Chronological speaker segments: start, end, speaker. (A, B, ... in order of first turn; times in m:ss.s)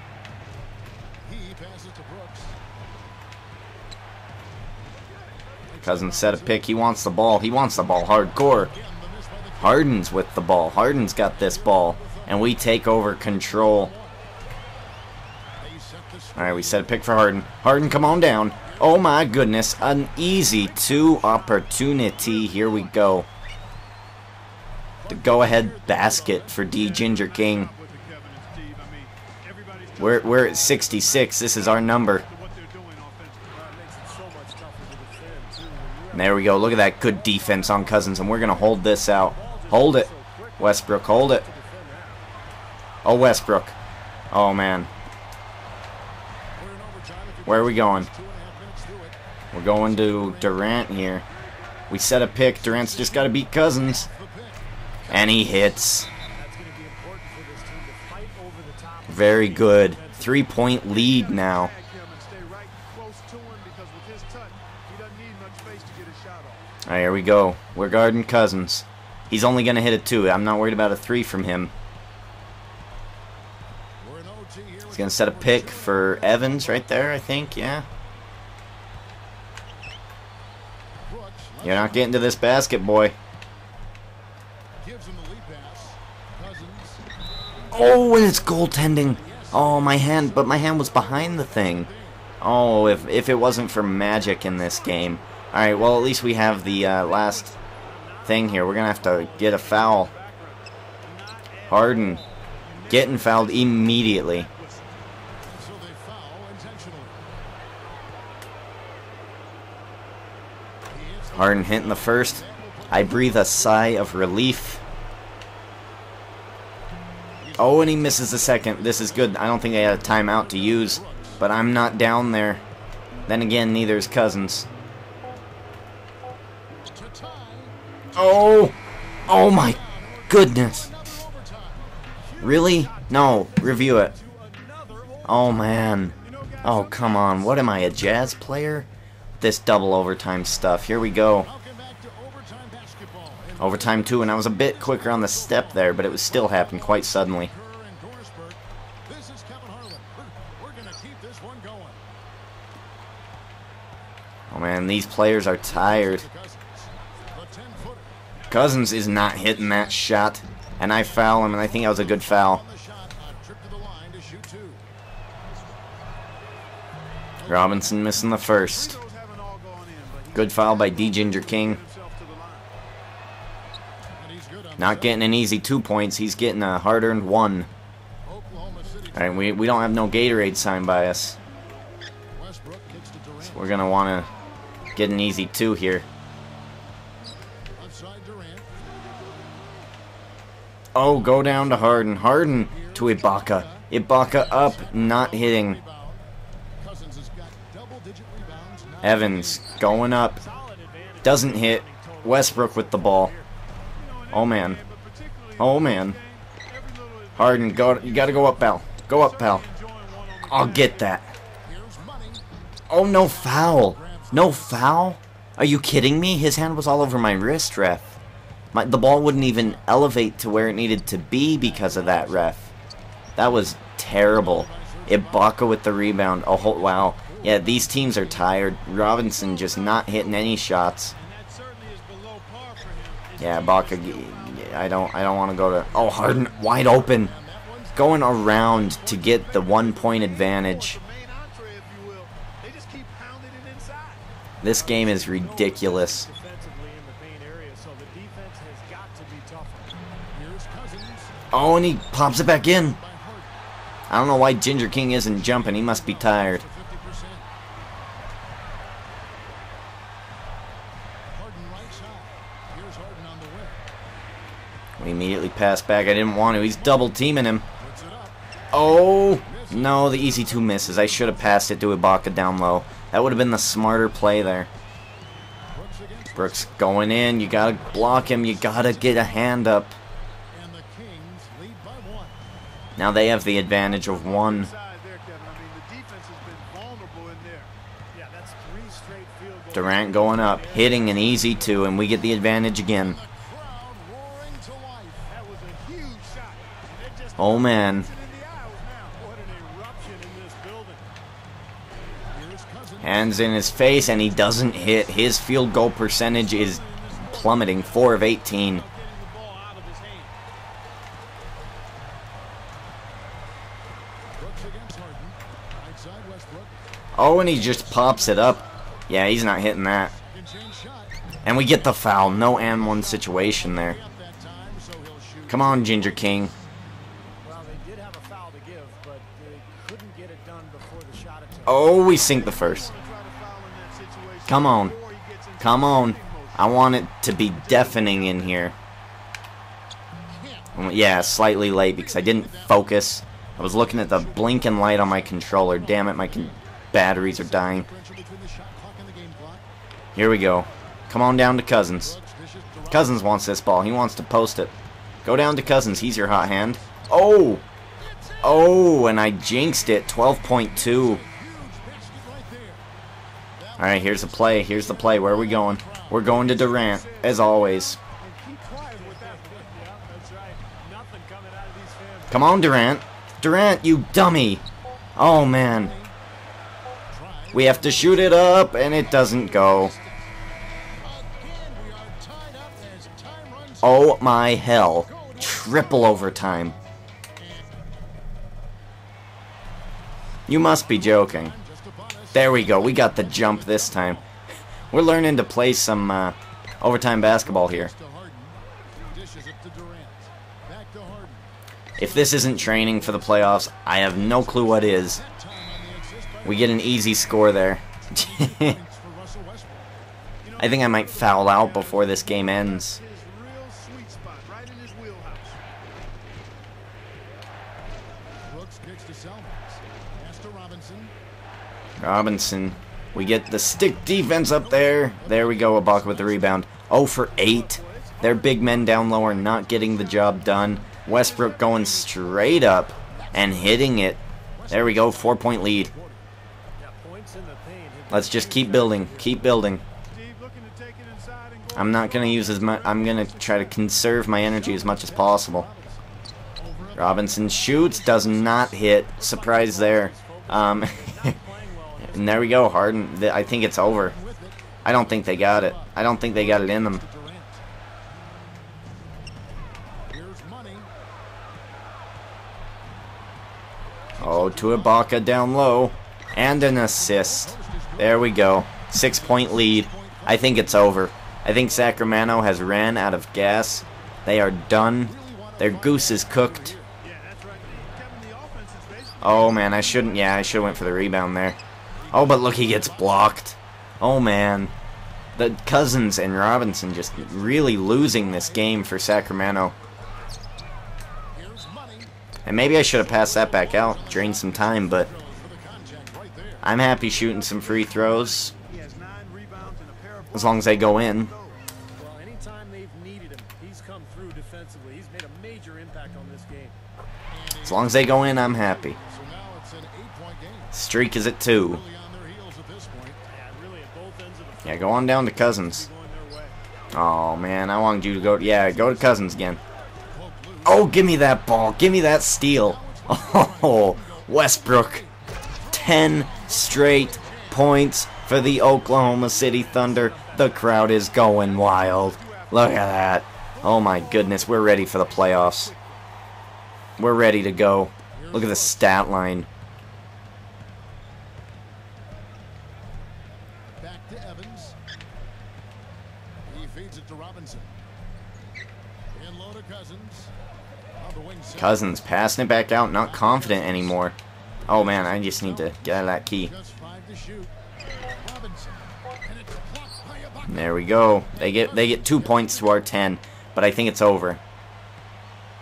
0:01.2-0:02.6 A
0:05.7-0:06.8 A
0:05.8-0:08.7 B
0:08.4-0:10.1 A
0:09.6-0:13.9 B
0:10.9-0:14.2 A
0:15.6-0:17.0 A
0:16.3-0:23.2 B
0:18.5-0:23.0 A
0:25.0-0:26.6 A
0:25.1-0:27.7 B
0:26.6-0:33.5 C
0:30.0-0:32.2 B
0:33.5-0:37.6 D
0:36.1-0:41.5 B
0:39.2-0:42.3 D
0:43.0-0:43.7 B
0:44.3-0:44.9 B
0:46.6-0:50.9 A
0:47.4-0:48.1 B
0:49.5-0:51.2 B
0:51.9-0:54.1 B
0:52.1-0:54.6 A
0:55.1-0:56.1 B
0:56.3-1:00.7 D
0:59.1-1:01.7 B
1:00.8-1:06.6 C
1:06.8-1:11.7 B
1:14.0-1:17.3 A
1:14.9-1:17.8 B
1:21.1-1:22.4 A
1:21.6-1:23.1 B
1:24.8-1:27.0 A
1:27.7-1:31.9 B
1:28.3-1:32.2 A
1:32.4-1:37.6 B
1:36.6-1:37.4 C
1:37.8-1:40.1 D
1:38.2-1:40.1 B
1:39.2-1:44.8 C
1:41.7-1:42.2 B
1:42.9-1:44.5 B
1:45.4-1:47.2 A
1:50.9-1:54.1 A
1:51.3-1:54.8 B
1:57.4-2:01.4 A
1:57.6-2:02.6 B
2:03.3-2:04.7 B
2:06.9-2:08.2 A
2:08.1-2:08.8 B
2:09.3-2:10.9 B
2:09.3-2:11.8 A
2:12.4-2:14.1 C
2:12.4-2:14.1 B
2:14.1-2:15.3 D
2:15.2-2:18.9 B
2:16.2-2:18.6 C
2:19.4-2:21.5 B
2:21.3-2:32.0 A
2:23.6-2:27.5 B
2:34.5-2:36.2 B
2:35.6-2:38.1 A
2:38.5-2:42.6 B
2:39.6-2:39.8 A
2:41.4-2:44.8 A
2:47.4-2:47.9 A
2:47.4-2:49.0 B
2:48.7-2:52.7 C
2:50.3-2:51.8 B
2:54.2-2:55.3 A
2:54.8-2:57.7 B
2:58.2-2:59.9 A
2:59.1-3:01.4 B
3:02.3-3:03.8 A
3:03.4-3:04.3 B
3:04.9-3:06.0 B
3:07.8-3:08.7 A
3:10.9-3:15.8 B
3:12.7-3:16.2 A
3:16.8-3:19.8 A
3:19.0-3:20.4 B
3:20.3-3:23.5 D
3:21.2-3:23.3 B
3:23.9-3:31.2 C
3:24.3-3:24.8 B
3:25.6-3:26.2 B
3:27.4-3:29.6 B
3:30.4-3:31.3 B
3:31.6-3:32.4 A
3:32.9-3:38.2 B
3:33.0-3:35.0 A
3:38.7-3:42.7 B
3:39.4-3:40.0 A
3:41.6-3:42.7 A
3:43.4-3:51.1 B
3:44.2-3:45.6 A
3:47.2-3:50.1 A
3:51.2-3:55.3 C
3:53.4-3:57.3 B
3:55.9-3:58.9 A
3:57.9-4:01.0 B
3:59.0-4:04.2 C
4:04.6-4:06.3 B
4:04.7-4:09.9 D
4:10.3-4:11.4 A
4:11.5-4:13.0 B
4:12.2-4:13.6 A
4:14.1-4:16.6 B
4:15.2-4:17.5 A
4:21.3-4:23.8 A
4:25.0-4:27.6 B
4:26.6-4:27.1 A
4:27.8-4:28.4 A
4:28.7-4:34.7 B
4:29.3-4:31.6 A
4:35.7-4:39.6 A
4:36.3-4:40.0 B
4:40.5-4:42.4 A
4:43.0-4:44.7 B
4:43.7-4:47.7 C
4:48.1-4:52.0 D
4:49.7-4:53.2 B
4:52.8-4:55.3 A
4:55.3-4:59.2 C
4:57.4-4:58.1 B
4:59.1-5:01.1 D
5:02.3-5:04.6 A
5:03.0-5:08.8 B
5:06.5-5:07.9 C
5:08.8-5:10.3 D
5:14.4-5:16.7 A
5:17.2-5:20.1 B
5:17.9-5:18.2 A
5:20.1-5:21.1 A
5:21.4-5:24.0 B
5:22.3-5:26.6 A
5:25.5-5:26.5 B
5:27.4-5:32.2 D
5:31.6-5:32.9 B
5:32.2-5:36.9 C
5:34.4-5:35.0 B
5:35.6-5:38.7 B
5:37.5-5:38.7 C
5:40.3-5:43.0 A
5:40.7-5:47.9 B
5:43.6-5:49.6 A
5:50.1-5:52.2 B
5:52.0-5:53.3 A
5:52.9-5:54.7 B
5:55.2-5:57.6 B
5:55.5-5:57.0 A
5:58.0-5:59.0 A
5:58.4-6:01.2 B
5:59.9-6:02.8 A
6:03.6-6:07.6 A
6:03.8-6:08.0 B
6:08.2-6:09.6 C
6:08.2-6:12.6 D
6:12.3-6:14.6 B
6:15.2-6:16.0 B
6:15.5-6:16.1 A
6:17.1-6:20.2 A
6:17.5-6:19.9 B
6:21.0-6:24.2 A
6:23.8-6:26.7 B
6:24.7-6:26.5 A
6:27.4-6:27.7 A
6:30.5-6:31.5 B
6:30.7-6:34.2 A
6:32.3-6:34.2 B
6:34.9-6:37.9 B
6:37.2-6:41.4 A
6:42.0-6:45.2 B
6:42.0-6:43.6 A
6:44.1-6:47.4 A
6:46.4-6:48.8 B
6:48.0-6:49.9 A
6:50.4-6:55.6 C
6:50.6-6:53.0 B
6:58.4-7:01.1 A
7:02.0-7:15.9 B
7:04.4-7:06.6 A
7:07.3-7:10.4 C
7:09.4-7:09.8 A
7:10.4-7:10.8 A
7:11.0-7:12.6 C
7:13.1-7:16.2 A
7:16.8-7:19.6 D
7:18.1-7:19.8 B
7:20.1-7:23.5 C
7:21.7-7:25.7 B
7:23.4-7:26.0 A
7:26.7-7:29.1 A
7:27.0-7:31.4 B
7:29.4-7:32.6 D
7:32.0-7:34.2 B
7:33.8-7:37.6 A
7:34.8-7:37.0 B
7:40.1-7:40.9 A
7:44.1-7:45.2 A
7:44.2-7:56.8 B
7:46.6-7:51.0 A
7:51.6-7:52.2 A
7:54.8-7:56.9 A
7:57.0-8:00.1 C
7:59.2-8:01.6 B
8:02.0-8:03.4 A
8:02.1-8:04.7 B
8:05.4-8:09.7 B
8:07.1-8:09.0 A
8:11.3-8:18.4 A
8:12.4-8:15.1 B
8:16.6-8:18.5 B
8:18.6-8:21.6 C
8:20.3-8:21.3 B
8:21.9-8:26.8 D
8:27.3-8:30.8 A
8:27.6-8:29.0 B
8:30.7-8:31.8 B
8:31.4-8:33.2 A
8:33.3-8:36.6 D
8:34.6-8:35.8 B
8:36.9-8:39.6 B
8:38.4-8:39.4 A
8:40.1-8:41.2 A
8:40.6-8:45.0 B
8:41.8-8:45.1 A
8:45.7-8:55.7 B
8:45.7-8:47.8 A
8:49.5-8:53.1 C
8:53.6-8:54.8 A
8:54.8-8:56.0 C
8:57.0-8:59.5 B
8:58.1-8:59.2 A
9:03.8-9:04.8 A
9:06.5-9:07.7 A
9:09.1-9:10.3 A
9:11.0-9:12.2 A
9:11.6-9:14.1 B
9:12.9-9:14.1 A
9:14.7-9:16.5 B
9:14.7-9:17.5 A
9:18.2-9:23.0 A
9:20.5-9:24.4 B